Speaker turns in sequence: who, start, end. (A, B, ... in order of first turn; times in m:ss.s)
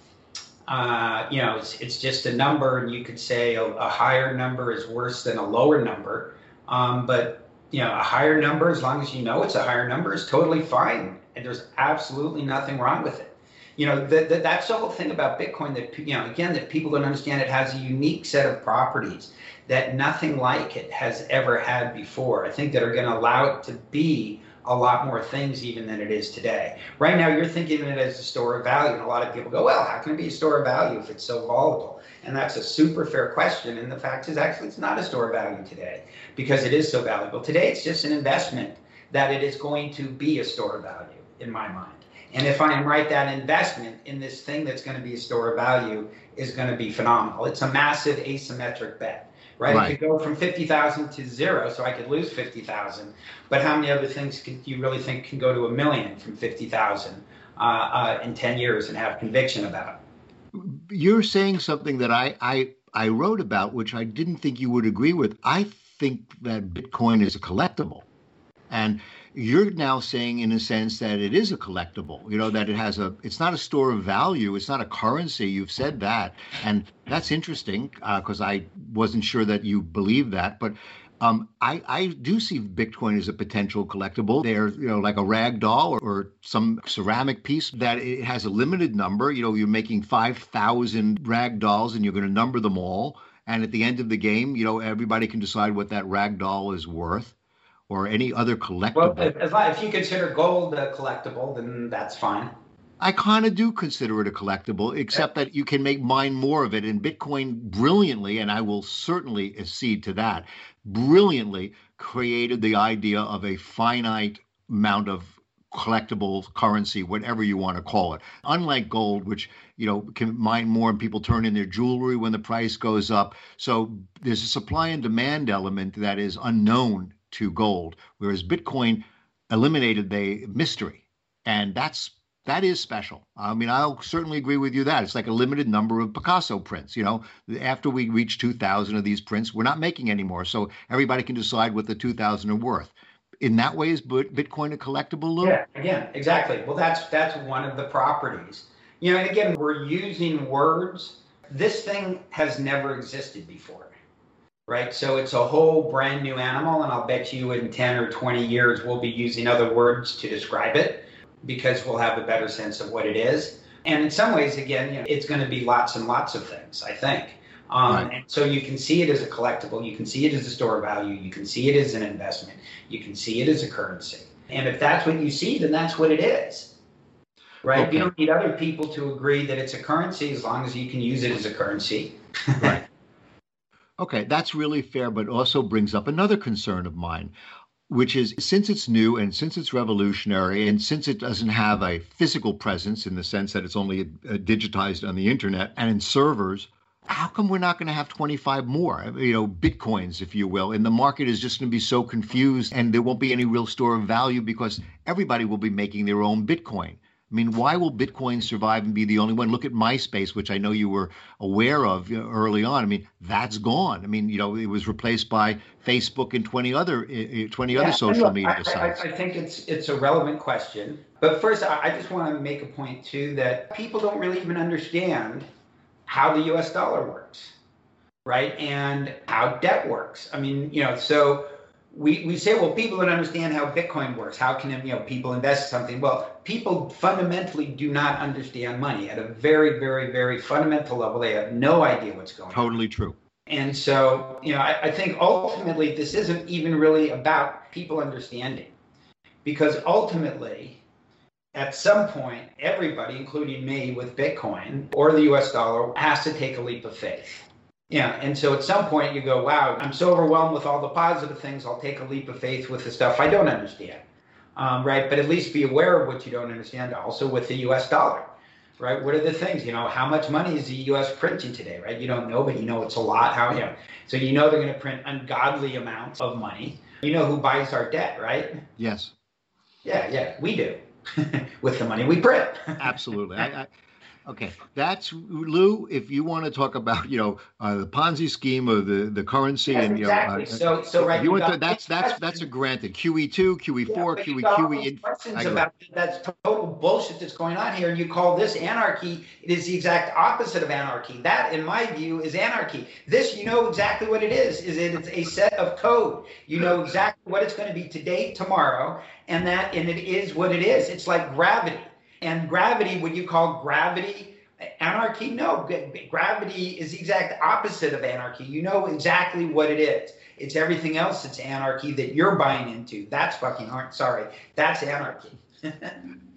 0:00.7-1:00.0 A
0:49.7-0:50.0 B
1:00.5-1:08.1 B
1:08.7-1:37.4 B
1:37.9-1:39.3 B
1:38.9-1:42.5 A
1:43.0-2:25.6 B
2:25.4-2:33.9 A
2:34.7-2:56.7 A
2:57.6-3:02.8 A
2:57.7-2:58.1 B
3:04.0-3:07.3 B
3:07.9-3:39.0 B
3:37.7-3:45.5 A
3:46.1-3:47.5 A
3:48.2-4:02.8 A
4:02.5-4:03.2 B
4:03.5-4:08.7 A
4:09.4-4:10.8 A
4:11.5-4:24.0 A
4:24.6-4:28.3 A
4:28.8-4:38.6 A
4:38.8-4:39.1 B
4:39.8-4:42.8 A
4:42.8-4:43.7 B
4:44.2-4:55.6 B
4:49.7-4:52.4 A
4:53.9-5:25.9 A